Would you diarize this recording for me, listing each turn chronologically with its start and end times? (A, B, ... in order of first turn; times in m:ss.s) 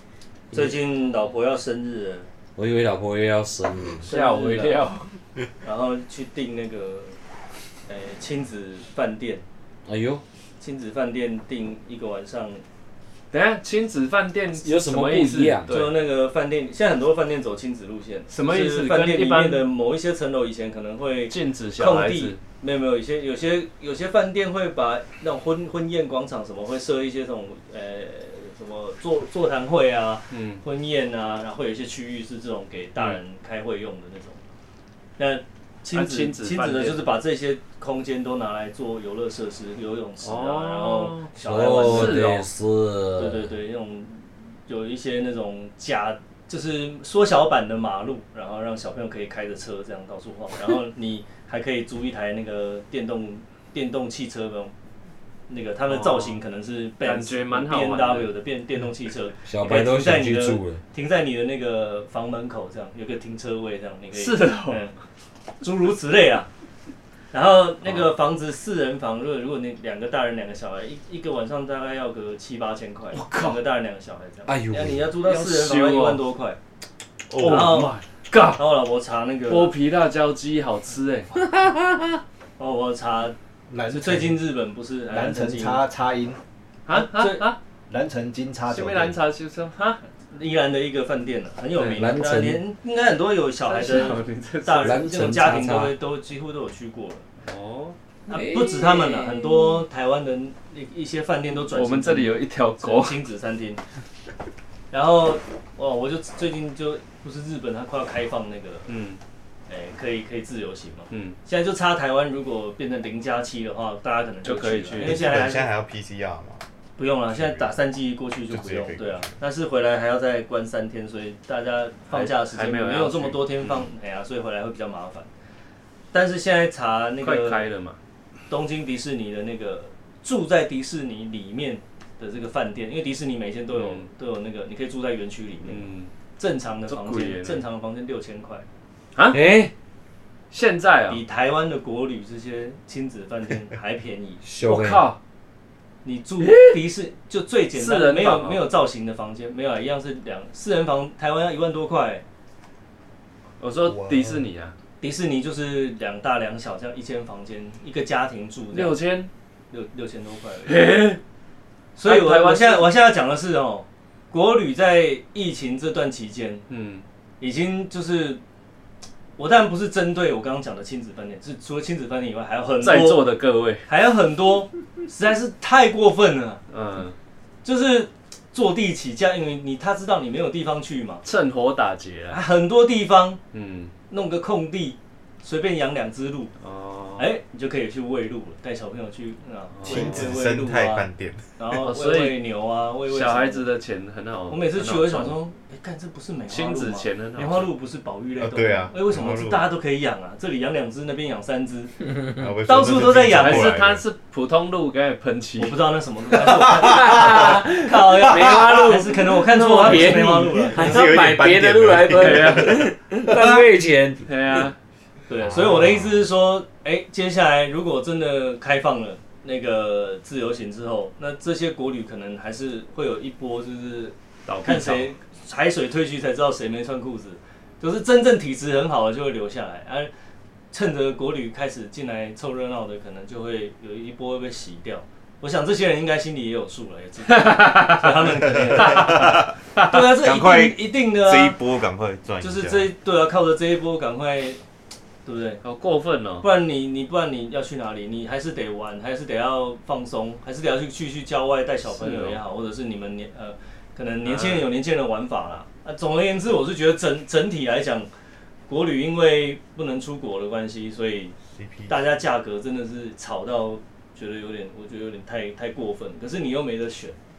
0:00.5-0:02.3 A
0:00.5-0:00.8 B
0:02.6-0:04.1 B
0:04.0-0:05.1 C
0:04.0-0:04.9 A
0:05.6-0:07.2 A
0:07.9-0:09.4 A
0:09.9-0:10.2 B
0:10.6-0:12.6 A
0:13.3-0:16.0 C
0:14.6-0:15.7 B
0:15.7-0:34.4 A
0:18.3-0:19.7 C
0:21.3-0:22.4 C
0:30.3-0:30.6 C
0:35.2-0:42.2 A
0:35.9-0:37.1 C
0:40.2-0:42.5 C
0:41.4-0:43.6 B
0:43.2-0:54.7 A
0:55.5-1:05.0 A
0:55.9-0:56.4 C
0:57.0-0:58.4 C
0:59.4-1:00.8 B
1:04.1-1:04.8 C
1:05.6-1:06.5 A
1:07.3-1:16.6 A
1:13.2-1:13.6 C
1:14.5-1:15.1 B
1:15.2-1:16.2 C
1:17.3-1:17.9 D
1:17.4-1:18.6 C
1:17.4-1:18.0 A
1:18.5-1:19.8 A
1:19.5-1:21.3 C
1:21.5-1:22.1 B
1:22.6-1:23.4 A
1:23.7-1:24.4 E
1:23.9-1:25.8 A
1:25.1-1:26.4 E
1:26.9-1:27.6 C
1:26.9-1:27.5 A
1:27.9-1:29.2 E
1:28.6-1:30.0 C
1:30.3-1:37.3 A
1:31.8-1:32.1 C
1:31.9-1:32.6 B
1:33.6-1:35.4 C
1:34.8-1:36.0 B
1:37.4-1:38.0 C
1:38.3-1:43.8 A
1:38.3-1:39.7 B
1:41.7-1:43.2 C
1:44.9-1:48.9 A
1:48.9-1:49.2 C
1:49.7-1:55.7 A
1:51.1-1:51.4 C
1:54.4-1:55.5 C
1:55.0-1:56.6 D
1:57.0-2:05.3 A
1:57.3-1:57.8 D
1:58.5-1:59.4 D
2:02.1-2:03.8 C
2:06.1-2:07.7 A
2:07.2-2:08.0 C
2:08.5-2:18.7 A
2:13.7-2:14.1 C
2:15.7-2:16.1 C
2:16.9-2:17.6 C
2:19.2-2:19.4 C
2:19.3-2:19.7 B
2:20.5-2:21.2 C
2:21.1-2:24.4 A
2:24.4-2:25.1 B
2:24.6-2:25.2 C
2:26.0-2:32.2 A
2:26.4-2:26.8 C
2:27.7-2:28.7 C
2:33.6-2:34.8 C
2:34.0-2:34.4 D
2:35.0-2:39.0 A
2:38.7-2:39.3 C
2:39.7-2:41.1 A
2:40.7-2:41.2 C
2:42.0-2:46.7 A
2:42.0-2:42.9 C
2:46.7-2:47.0 C
2:47.4-2:48.4 A
2:49.4-2:53.3 A
2:52.8-2:53.9 C
2:53.8-2:56.6 A
2:56.7-2:57.2 C
2:57.6-3:01.2 A
3:01.2-3:02.4 C
3:02.3-3:03.4 A
3:03.5-3:03.9 C
3:04.1-3:06.5 A
3:06.6-3:07.3 C
3:07.2-3:13.7 A
3:09.8-3:10.3 C
3:09.8-3:11.6 D
3:11.7-3:12.4 C
3:13.1-3:15.4 C
3:14.5-3:22.0 A
3:16.5-3:17.7 C
3:18.4-3:19.7 D
3:22.4-3:24.0 D
3:22.7-3:23.8 A
3:23.3-3:25.8 C
3:25.6-3:31.4 A
3:26.8-3:34.6 B
3:30.7-3:32.8 D
3:32.1-3:32.9 C
3:33.3-3:33.6 E
3:34.2-3:34.8 C
3:35.3-3:50.1 A
3:44.5-3:45.1 C
3:50.7-4:01.6 A
3:57.3-3:59.2 C
3:58.6-4:02.9 D
4:02.4-4:04.6 A
4:05.2-4:05.6 A
4:05.6-4:06.5 C
4:06.4-4:18.1 A
4:11.9-4:12.4 C
4:14.2-4:14.7 C
4:18.7-4:21.4 A
4:21.5-4:22.0 D
4:21.9-4:27.2 A